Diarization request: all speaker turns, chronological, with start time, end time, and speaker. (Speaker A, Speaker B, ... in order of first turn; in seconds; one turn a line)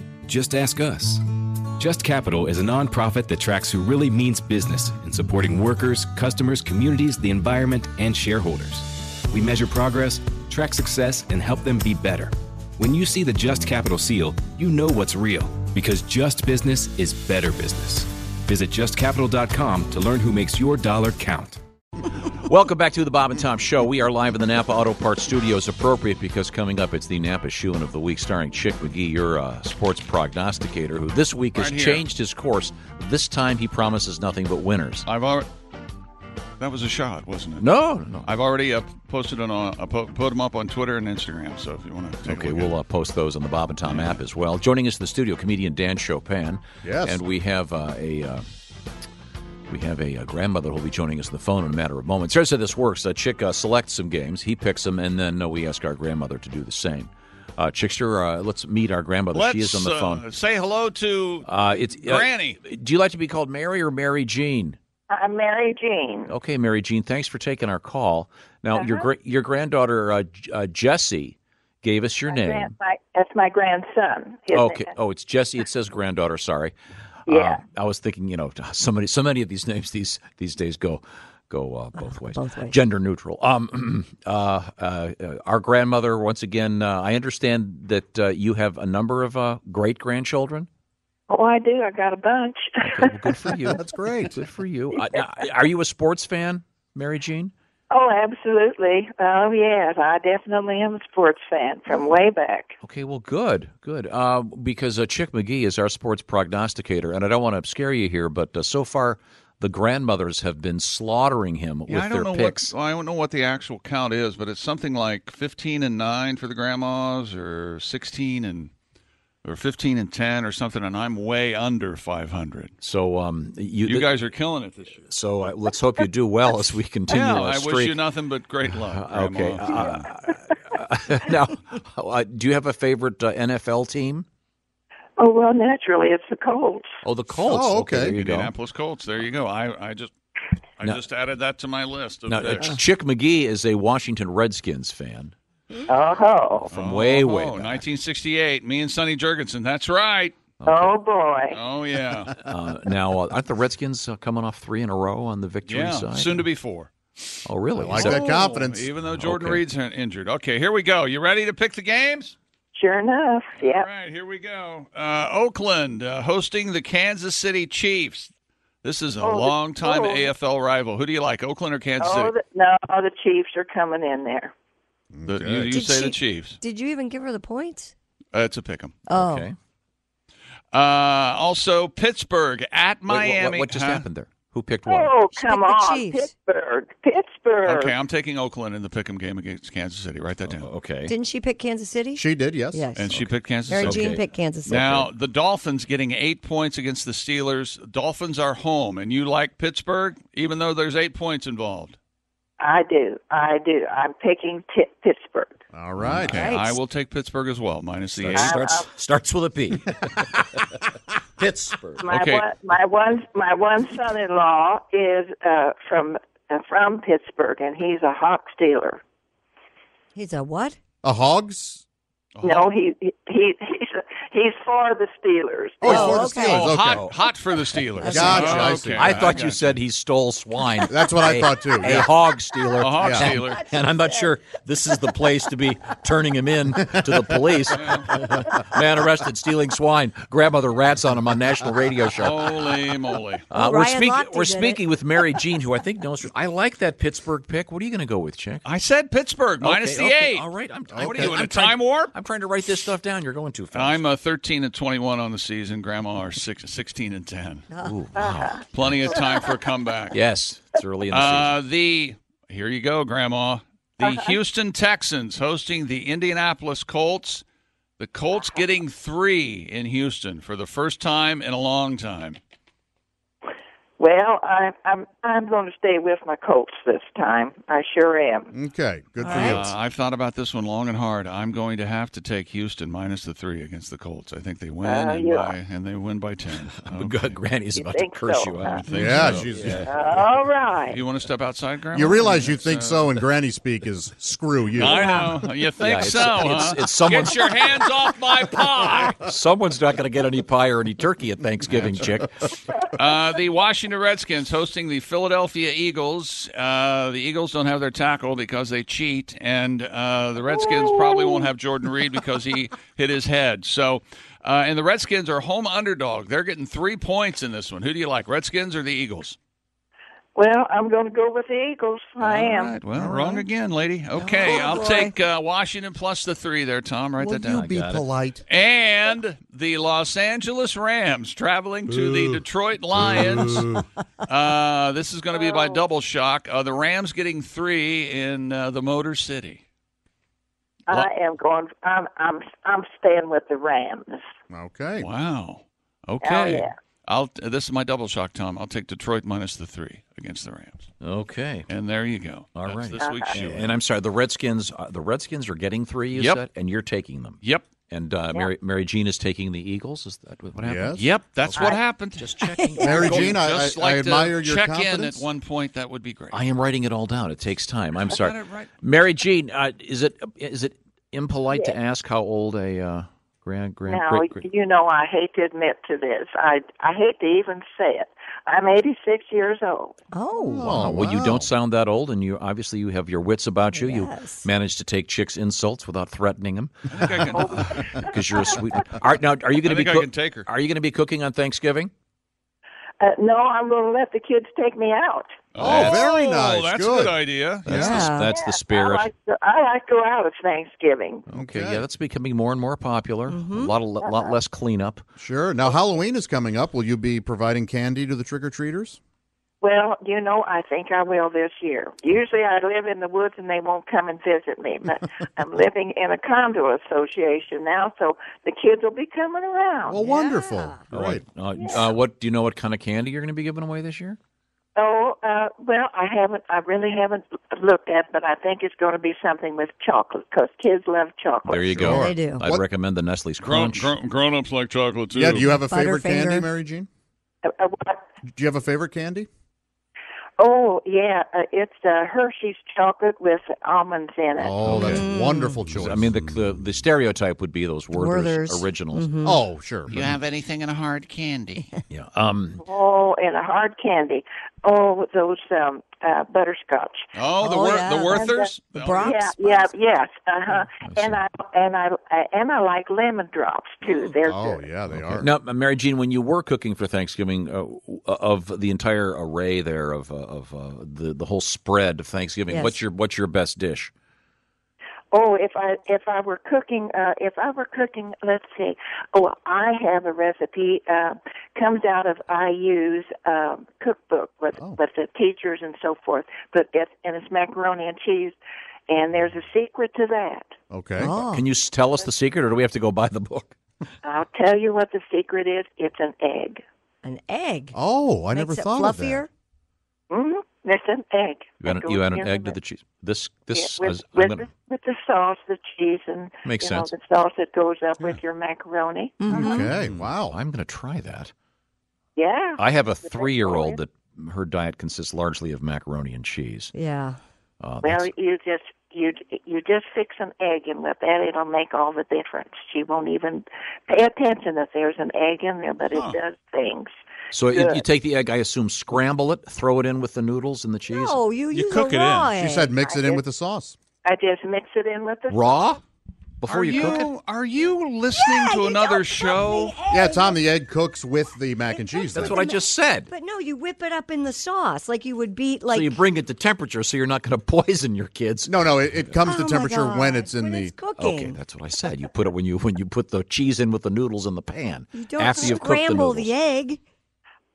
Speaker A: 0.3-1.2
Speaker A: 1.8-21.6
Speaker B: 22.2-35.1
Speaker C: 31.6-32.1
Speaker C: 35.0-35.5
Speaker C: 36.6-37.7
Speaker B: 37.6-38.3
Speaker C: 38.2-42.7
Speaker B: 42.2-48.4
Speaker C: 43.9-44.2
Speaker D: 46.8-47.2
Speaker B: 49.7-60.2
Speaker C: 59.3-62.6
Speaker B: 61.5-64.8
Speaker E: 65.1-66.3
Speaker B: 66.3-72.7
Speaker E: 68.8-69.1
Speaker E: 72.3-74.9
Speaker B: 74.5-76.8
Speaker E: 77.3-77.6
Speaker B: 77.3-90.7
Speaker F: 82.0-82.8
Speaker E: 91.3-93.6
Speaker B: 92.8-97.5
Speaker D: 93.7-94.4
Speaker E: 97.9-102.8
Speaker B: 102.8-112.7
Speaker C: 111.9-118.7
Speaker C: 119.4-122.7
Speaker B: 122.8-124.1
Speaker C: 123.8-125.0
Speaker B: 125.1-128.0
Speaker C: 127.1-130.1
Speaker B: 128.7-134.3
Speaker E: 135.2-136.9
Speaker B: 137.0-138.5
Speaker D: 137.4-138.2
Speaker C: 138.2-140.1
Speaker C: 140.8-142.8
Speaker B: 142.3-145.3
Speaker E: 145.9-146.7
Speaker B: 146.7-147.8
Speaker C: 146.7-150.4
Speaker B: 150.6-150.9
Speaker E: 150.6-151.6
Speaker C: 151.5-152.3
Speaker B: 152.4-156.4
Speaker C: 155.7-156.9
Speaker B: 157.4-158.2
Speaker D: 157.8-158.9
Speaker C: 158.0-162.3
Speaker B: 159.2-159.6
Speaker E: 162.7-163.9
Speaker C: 163.6-168.3
Speaker C: 168.8-172.3
Speaker E: 169.2-170.3
Speaker E: 172.0-174.5
Speaker D: 175.1-175.8
Speaker C: 175.3-176.6
Speaker F: 175.7-177.9
Speaker C: 178.3-179.0
Speaker F: 179.1-179.5
Speaker B: 179.1-179.5
Speaker C: 180.7-184.1
Speaker B: 183.1-185.1
Speaker E: 184.9-187.9
Speaker F: 185.3-186.3
Speaker C: 187.6-190.7
Speaker B: 190.4-191.1
Speaker F: 191.1-193.1
Speaker D: 192.2-192.9
Speaker C: 192.9-194.1
Speaker B: 193.1-195.1
Speaker F: 193.7-194.8
Speaker C: 194.7-202.0
Speaker E: 202.6-205.6
Speaker D: 205.7-206.5
Speaker C: 206.1-208.6
Speaker F: 206.3-206.8
Speaker B: 208.2-210.7
Speaker E: 208.3-208.9
Speaker B: 211.4-212.1
Speaker E: 212.0-219.0
Speaker C: 212.1-212.4
Speaker F: 220.2-220.8
Speaker D: 221.0-221.8
Speaker C: 222.3-222.7
Speaker E: 222.4-226.3
Speaker D: 225.8-227.1
Speaker F: 225.8-226.7
Speaker C: 226.4-229.8
Speaker B: 226.8-227.1
Speaker F: 228.0-228.9
Speaker D: 228.0-229.3
Speaker B: 228.3-242.7
Speaker D: 230.9-232.1
Speaker C: 232.8-233.7
Speaker D: 233.0-233.4
Speaker C: 237.8-238.1
Speaker C: 242.2-243.5
Speaker B: 243.5-248.7
Speaker F: 243.5-244.8
Speaker C: 248.7-252.1
Speaker B: 249.6-254.0
Speaker D: 250.9-251.4
Speaker C: 253.7-257.7
Speaker B: 257.8-258.7
Speaker C: 258.7-260.2
Speaker B: 260.1-261.6
Speaker C: 261.1-267.4
Speaker C: 268.0-272.4
Speaker E: 274.0-278.5
Speaker D: 278.5-279.7
Speaker F: 279.2-279.6
Speaker C: 279.3-287.2
Speaker E: 284.8-285.5
Speaker B: 286.9-289.9
Speaker E: 287.7-288.8
Speaker C: 288.6-289.8
Speaker D: 288.9-289.9
Speaker E: 289.7-291.0
Speaker C: 290.9-293.2
Speaker D: 291.9-295.4
Speaker C: 294.7-299.2
Speaker B: 295.8-297.7
Speaker B: 299.1-302.4
Speaker C: 301.7-302.1
Speaker C: 302.9-319.4
Speaker E: 310.5-311.5
Speaker E: 320.4-322.8
Speaker C: 322.2-327.7
Speaker D: 323.0-323.4
Speaker F: 324.4-325.1
Speaker D: 327.2-328.4
Speaker B: 327.5-328.1
Speaker C: 328.5-339.6
Speaker D: 331.9-332.4
Speaker D: 332.9-333.9
Speaker E: 335.3-335.8
Speaker E: 340.9-344.3
Speaker D: 344.5-345.1
Speaker C: 345.0-350.9
Speaker E: 346.2-346.7
Speaker B: 351.0-351.7
Speaker C: 351.7-353.7
Speaker B: 352.6-363.4
Speaker E: 353.0-353.4
Speaker C: 356.1-356.4
Speaker D: 360.6-361.1
Speaker C: 361.0-366.4
Speaker F: 362.4-363.0
Speaker D: 362.8-365.2
Speaker B: 366.3-374.4
Speaker C: 368.0-368.7
Speaker E: 373.9-380.0
Speaker F: 380.1-380.8
Speaker D: 380.4-381.5
Speaker B: 380.6-391.9
Speaker F: 383.7-384.5
Speaker C: 386.9-387.9
Speaker E: 387.3-388.6
Speaker C: 389.6-390.5
Speaker E: 393.0-395.3
Speaker C: 395.5-397.9
Speaker B: 395.6-396.0
Speaker D: 395.6-398.1
Speaker B: 397.7-399.1
Speaker F: 397.8-398.3
Speaker E: 398.3-401.2
Speaker B: 401.3-405.1
Speaker D: 401.3-401.8
Speaker F: 403.3-403.7
Speaker E: 404.0-404.3
Speaker D: 405.2-409.0
Speaker E: 409.6-420.0
Speaker D: 419.9-421.2
Speaker F: 420.0-420.9
Speaker B: 420.9-424.2
Speaker E: 421.6-421.8
Speaker E: 424.8-431.9
Speaker B: 431.4-433.9
Speaker D: 431.8-432.6
Speaker F: 431.9-432.4
Speaker C: 433.4-435.6
Speaker D: 435.1-436.9
Speaker F: 435.6-436.5
Speaker E: 437.4-438.1
Speaker D: 438.3-439.3
Speaker E: 440.4-444.9
Speaker D: 444.4-446.4
Speaker B: 444.6-445.1
Speaker F: 444.7-445.7
Speaker B: 445.7-449.1
Speaker F: 447.9-449.4
Speaker D: 449.2-450.0
Speaker C: 449.9-451.7
Speaker B: 451.9-452.6
Speaker E: 452.6-457.1
Speaker C: 457.1-459.3
Speaker F: 457.4-459.7
Speaker E: 458.1-464.7
Speaker B: 460.7-461.2
Speaker F: 463.8-464.2
Speaker D: 464.3-465.3
Speaker B: 465.0-473.9
Speaker F: 472.5-472.8
Speaker E: 475.1-488.4
Speaker E: 488.9-490.5
Speaker D: 490.7-491.2
Speaker F: 491.0-491.4
Speaker B: 491.1-493.6
Speaker E: 494.0-496.6
Speaker F: 497.0-497.8
Speaker D: 497.7-499.3
Speaker F: 498.3-499.3
Speaker E: 500.1-502.6
Speaker B: 501.6-504.5
Speaker E: 503.5-509.6
Speaker B: 506.4-506.9
Speaker F: 509.2-509.7
Speaker D: 509.3-510.4
Speaker B: 509.7-511.3
Speaker E: 512.2-513.8
Speaker B: 512.6-516.7
Speaker F: 516.8-517.2
Speaker B: 517.6-518.1
Speaker E: 517.8-526.9
Speaker B: 527.3-531.2
Speaker E: 527.5-527.8
Speaker F: 530.9-532.7
Speaker D: 531.5-533.8
Speaker C: 531.6-532.2
Speaker E: 532.8-533.2
Speaker E: 534.0-535.8
Speaker B: 535.3-535.8
Speaker B: 536.4-537.1
Speaker C: 536.5-539.8
Speaker F: 538.2-540.5
Speaker D: 539.9-542.4
Speaker F: 541.6-546.0
Speaker B: 542.1-543.1
Speaker B: 545.7-549.2
Speaker D: 548.5-550.8
Speaker F: 549.2-551.4
Speaker B: 551.0-556.3
Speaker F: 554.9-556.8